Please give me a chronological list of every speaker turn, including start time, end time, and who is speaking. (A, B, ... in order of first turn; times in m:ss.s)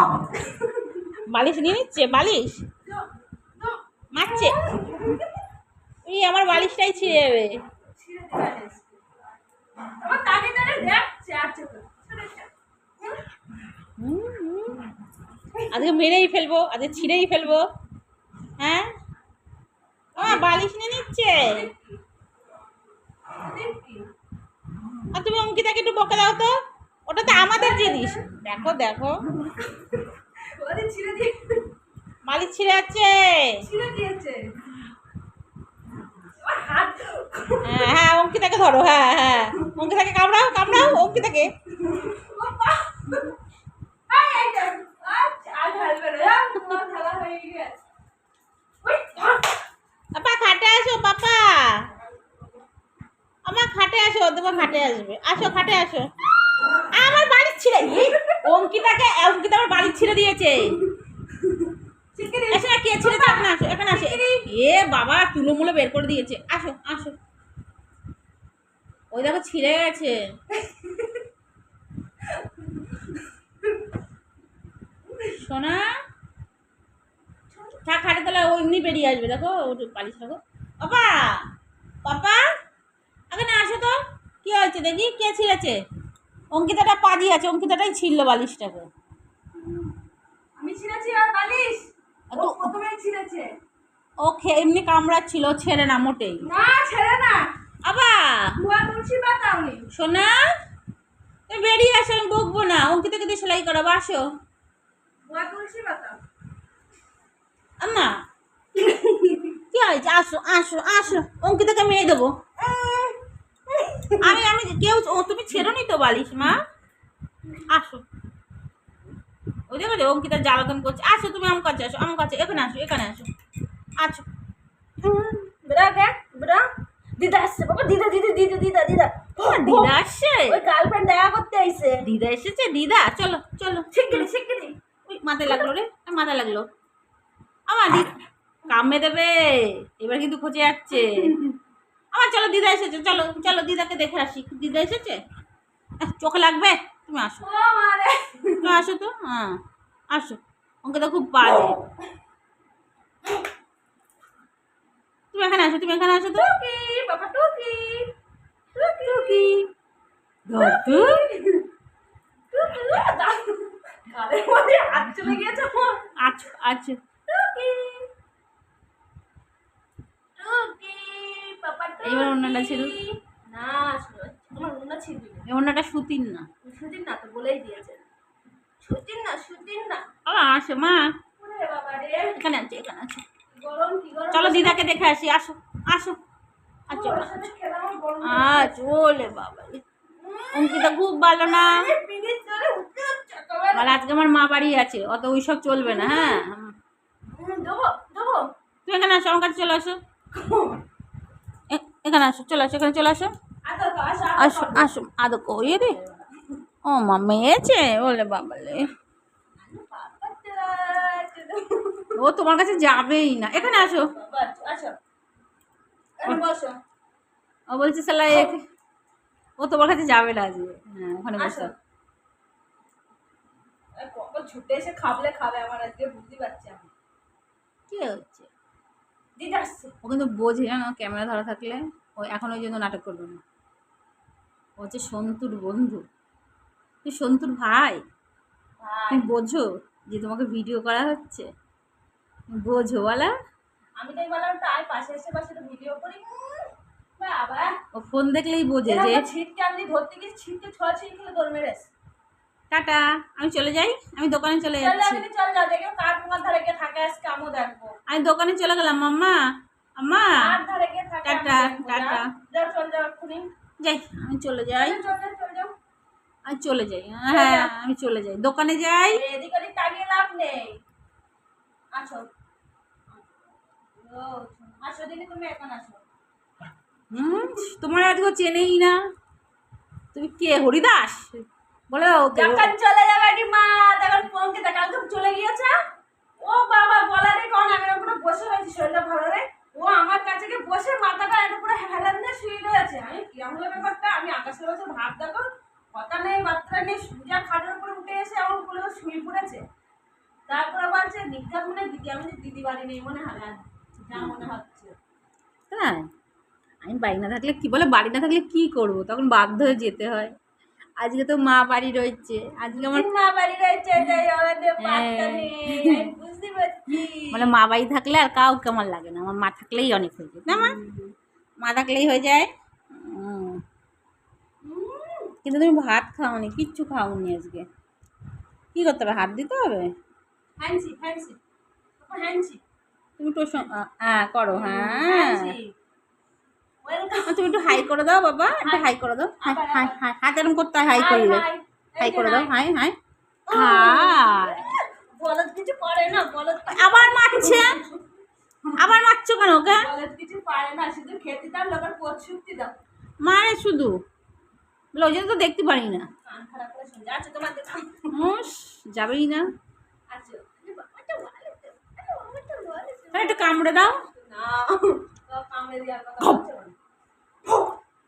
0:00.2-0:01.0 A
0:01.3-0:02.6 B
0:02.8-0:05.4 A
0:04.1-0:04.6 B
0:06.0-0:07.6 B
0:07.8-0:09.2 A
0:09.8-0:12.5 A
0:13.0-0:13.2 A
0:14.0-0:14.9 B
0:15.5-0:15.8 A
0:15.7-0:17.6 B
0:18.6-0:18.9 B
0:20.1-0:20.5 A
0:20.2-0:21.6 B
0:21.4-0:22.0 A
0:23.3-0:24.1 A
0:25.1-0:26.5 B
0:27.1-0:29.2 B
0:27.4-0:28.2 A
0:29.5-0:31.7 A
0:32.2-0:33.6 B
0:33.6-0:34.5 A
0:36.4-0:38.0 A
0:37.6-0:41.5 B
0:41.7-0:43.4 A
0:44.1-0:47.8 A
0:48.8-0:49.6 A
0:50.1-0:51.8 B
0:53.4-0:56.1 B
0:56.9-1:00.8 B
0:57.9-0:58.7 A
1:00.8-1:04.5 A
1:02.5-1:07.2 B
1:09.1-1:10.2 B
1:10.5-1:11.2 A
1:12.2-1:13.9 A
1:15.0-1:15.4 A
1:15.2-1:15.8 B
1:17.5-1:17.8 A
1:17.8-1:21.4 B
1:22.0-1:22.4 B
1:23.3-1:25.8 B
1:26.5-1:28.9 B
1:29.5-1:29.9 A
1:30.6-1:33.5 A
1:32.3-1:32.7 B
1:34.2-1:36.5 B
1:36.4-1:37.5 A
1:37.8-1:38.5 B
1:38.6-1:39.9 A
1:39.9-1:40.3 B
1:41.5-1:44.2 B
1:45.3-1:46.2 A
1:47.8-1:48.1 B
1:48.7-1:49.6 A
1:49.7-1:52.3 B
1:52.6-1:54.4 A
1:54.2-1:56.6 B
1:57.7-1:58.0 B
1:59.7-2:03.3 B
2:04.0-2:04.2 B
2:05.0-2:05.4 B
2:05.6-2:09.9 A
2:09.4-2:10.6 B
2:10.5-2:12.1 A
2:12.0-2:14.1 B
2:13.9-2:14.8 A
2:15.0-2:16.7 B
2:15.4-2:15.7 A
2:17.7-2:18.1 B
2:18.7-2:21.4 B
2:20.9-2:21.6 A
2:22.1-2:25.2 B
2:26.0-2:27.4 B
2:27.4-2:28.8 A
2:28.6-2:29.6 B
2:30.1-2:31.8 B
2:35.3-2:36.5 B
2:36.2-2:38.1 A
2:38.7-2:39.6 A
2:38.9-2:39.6 B
2:40.5-2:41.2 B
2:40.5-2:41.7 A
2:42.5-2:46.1 A
2:46.2-2:47.0 B
2:47.3-2:48.1 A
2:50.4-2:55.5 A
2:52.0-2:53.0 B
2:55.5-2:56.4 B
2:56.6-2:58.0 A
2:58.8-3:00.1 A
3:00.2-3:01.1 B
3:01.4-3:02.4 A
3:02.3-3:03.2 B
3:03.5-3:05.0 A
3:04.3-3:06.2 B
3:06.9-3:08.8 A
3:06.9-3:07.4 B
3:08.2-3:09.8 B
3:10.2-3:14.0 A
3:10.5-3:11.9 B
3:13.7-3:16.7 B
3:15.8-3:16.4 A
3:17.3-3:18.5 A
3:18.8-3:20.0 B
3:20.3-3:20.8 A
3:21.7-3:23.3 B
3:23.6-3:25.0 A
3:24.4-3:26.0 B
3:25.5-3:26.6 A
3:26.9-3:28.9 B
3:29.6-3:32.2 A
3:32.2-3:34.1 B
3:33.5-3:35.0 A
3:36.2-3:36.8 A
3:37.7-3:38.6 B
3:39.6-3:41.7 B
3:41.4-3:41.7 A
3:44.0-3:46.9 A
3:47.9-3:48.5 B
3:49.4-3:49.9 A
3:50.0-3:53.4 B
3:54.8-3:56.0 B
3:57.0-3:58.0 B
3:58.8-3:59.3 A
3:59.1-4:01.5 B
4:02.5-4:03.3 B
4:04.0-4:07.8 A
4:07.9-4:09.2 B
4:08.8-4:11.9 A
4:12.7-4:15.2 B
4:14.8-4:18.0 A
4:18.1-4:19.4 B
4:20.0-4:20.4 B
4:20.3-4:23.5 A
4:21.2-4:22.3 B
4:23.8-4:25.0 B
4:24.8-4:25.7 A
4:26.5-4:29.2 B
4:27.3-4:27.7 A
4:29.1-4:30.8 A
4:31.9-4:32.3 A
4:33.1-4:33.4 A
4:33.9-4:36.0 A
4:37.1-4:39.0 B
4:37.1-4:37.6 A
4:40.1-4:42.7 B
4:42.3-4:45.8 A
4:46.4-4:59.6 A
5:00.5-5:04.9 A
5:04.1-5:04.4 B
5:05.7-5:06.1 B
5:06.8-5:10.3 B
5:11.0-5:13.1 B
5:12.8-5:17.5 A
5:14.8-5:16.1 B
5:17.3-5:20.8 B
5:20.5-5:21.1 A
5:21.6-5:23.6 B
5:24.6-5:25.3 A
5:25.4-5:27.7 B
5:28.7-5:29.9 B
5:30.6-5:31.4 A
5:32.0-5:32.6 A
5:33.2-5:35.6 B
5:34.5-5:35.7 A
5:36.8-5:37.9 A
5:37.2-5:41.5 B
5:38.6-5:40.0 A
5:40.9-5:42.6 A
5:42.0-5:43.0 B
5:43.5-5:49.0 A
5:43.5-5:44.6 B
5:46.7-5:47.8 B
5:48.8-5:49.9 B
5:49.7-5:52.7 A
5:53.2-5:53.9 B
5:54.9-5:56.0 B
5:56.2-5:58.3 A
5:58.1-5:59.4 B
6:00.1-6:06.8 A
6:03.1-6:04.0 B